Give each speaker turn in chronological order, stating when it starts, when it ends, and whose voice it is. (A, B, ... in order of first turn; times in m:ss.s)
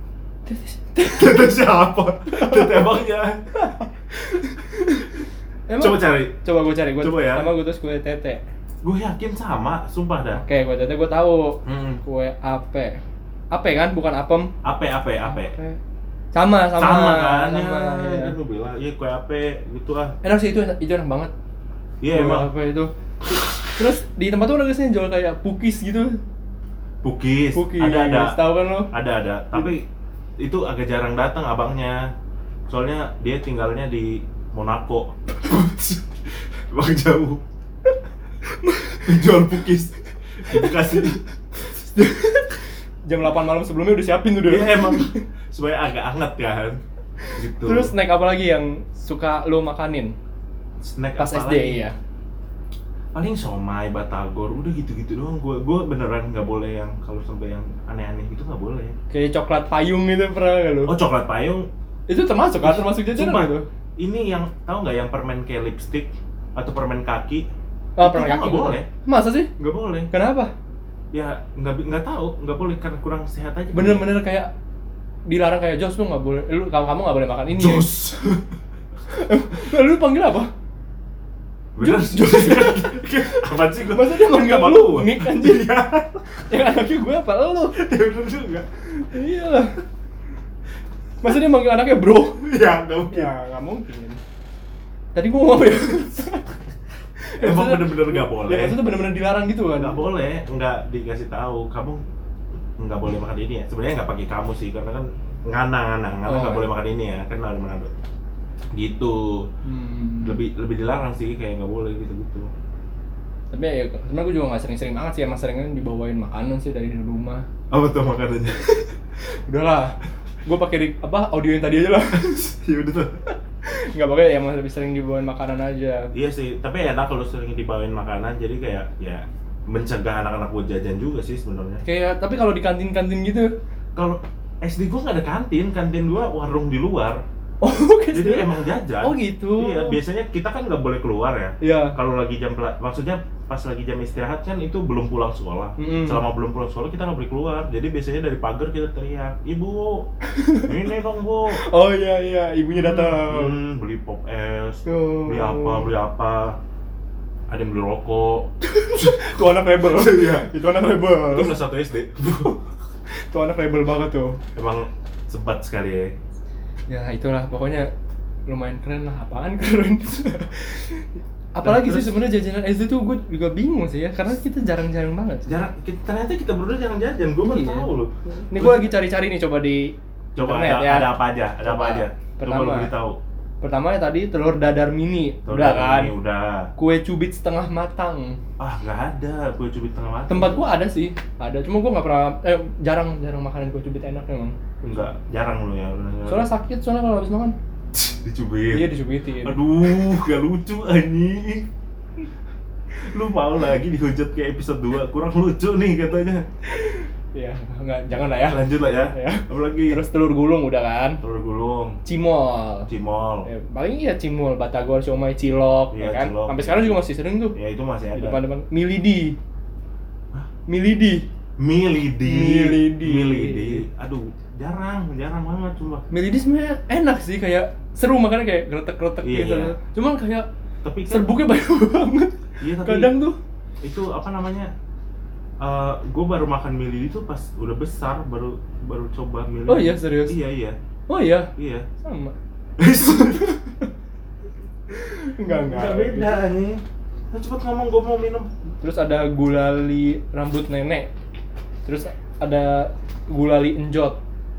0:00.5-0:01.6 A
0:01.0-0:03.5 B
0:02.3-0:02.9 A
0:03.6-0:08.4 A
0:05.8-0:06.4 B
0:07.0-0:07.5 B
0:08.8-0:10.4 B
0:10.4-0:14.5 A
0:11.6-0:12.0 B
0:14.6-0:15.6 B
0:15.3-0:15.8 A
0:16.3-0:18.4 A
0:16.7-0:20.2 B
0:20.2-0:21.3 A
0:22.0-0:22.5 B
0:22.1-0:22.9 A
0:23.7-0:26.2 A
0:27.0-0:28.4 B
0:27.6-0:28.9 A
0:28.9-0:29.8 B
0:30.4-0:32.1 B
0:32.7-0:36.0 B
0:35.5-0:35.8 A
0:36.5-0:37.4 B
0:38.5-0:39.4 A
0:39.0-0:41.2 B
0:40.5-0:41.1 A
0:41.6-0:45.2 A
0:44.5-0:46.8 B
0:47.2-0:50.2 A
0:47.4-0:47.9 B
0:50.8-0:51.8 B
0:51.2-0:52.0 A
0:53.1-0:59.0 B
0:59.1-1:01.0 A
1:00.9-1:01.7 B
1:02.1-1:03.7 A
1:02.6-1:07.5 B
1:08.0-1:09.5 A
1:08.0-1:08.9 B
1:09.6-1:10.1 B
1:10.1-1:10.5 A
1:11.1-1:14.1 B
1:13.7-1:14.5 A
1:15.3-1:18.0 A
1:17.5-1:18.4 B
1:19.1-1:20.5 A
1:21.8-1:26.4 B
1:21.8-1:25.7 A
1:26.5-1:27.8 A
1:27.7-1:28.7 B
1:29.0-1:29.8 A
1:31.2-1:32.5 A
1:32.4-1:33.3 B
1:33.1-1:34.2 A
1:35.2-1:36.5 A
1:37.2-1:40.0 A
1:37.4-1:38.8 B
1:39.8-1:42.0 B
1:42.8-1:47.9 B
1:46.3-1:46.7 A
1:48.7-1:49.5 B
1:49.6-1:50.4 A
1:50.2-1:52.5 B
1:53.5-1:57.5 A
1:57.7-1:58.6 B
1:58.6-2:02.5 A
2:02.1-2:03.2 B
2:03.6-2:06.1 A
2:06.1-2:11.8 B
2:11.8-2:13.5 A
2:14.0-2:17.2 B
2:17.6-2:18.5 A
2:18.1-2:30.1 B
2:19.0-2:20.0 A
2:21.6-2:22.0 A
2:25.8-2:26.2 A
2:30.3-2:30.8 A
2:30.6-2:31.6 B
2:31.5-2:33.6 A
2:32.7-2:36.6 B
2:34.9-2:35.9 A
2:37.5-2:40.5 B
2:38.6-2:41.6 A
2:41.2-2:42.6 B
2:43.1-2:44.4 A
2:44.6-2:46.2 B
2:46.9-2:47.9 A
2:48.5-2:55.5 A
2:51.6-2:52.2 B
2:55.5-2:58.9 B
2:57.4-2:57.9 A
2:58.5-3:02.9 A
3:00.4-3:03.2 B
3:03.6-3:06.1 A
3:05.5-3:06.7 B
3:06.8-3:08.4 A
3:08.6-3:10.6 B
3:10.3-3:14.6 A
3:14.8-3:16.5 B
3:16.3-3:17.6 A
3:17.9-3:18.9 B
3:18.7-3:19.6 A
3:19.4-3:21.7 B
3:23.0-3:26.4 B
3:26.7-3:31.2 A
3:28.5-3:30.0 B
3:31.2-3:32.0 B
3:32.0-3:32.9 A
3:32.9-3:33.5 B
3:33.4-3:37.6 A
3:35.9-3:37.0 B
3:37.5-3:38.4 B
3:38.2-3:39.4 A
3:40.7-3:41.2 A
3:41.6-3:46.0 B
3:42.2-3:43.8 A
3:46.1-3:50.5 A
3:49.2-3:49.8 B
3:50.8-3:51.3 B
3:51.1-3:53.4 A
3:52.6-3:53.2 B
3:53.8-3:54.7 B
3:55.6-4:00.8 B
3:59.7-4:00.4 A
4:01.1-4:02.3 A
4:01.6-4:01.9 B
4:02.8-4:03.5 B
4:02.9-4:03.9 A
4:04.9-4:06.4 A
4:05.6-4:08.5 B
4:08.8-4:11.1 A
4:11.9-4:14.2 A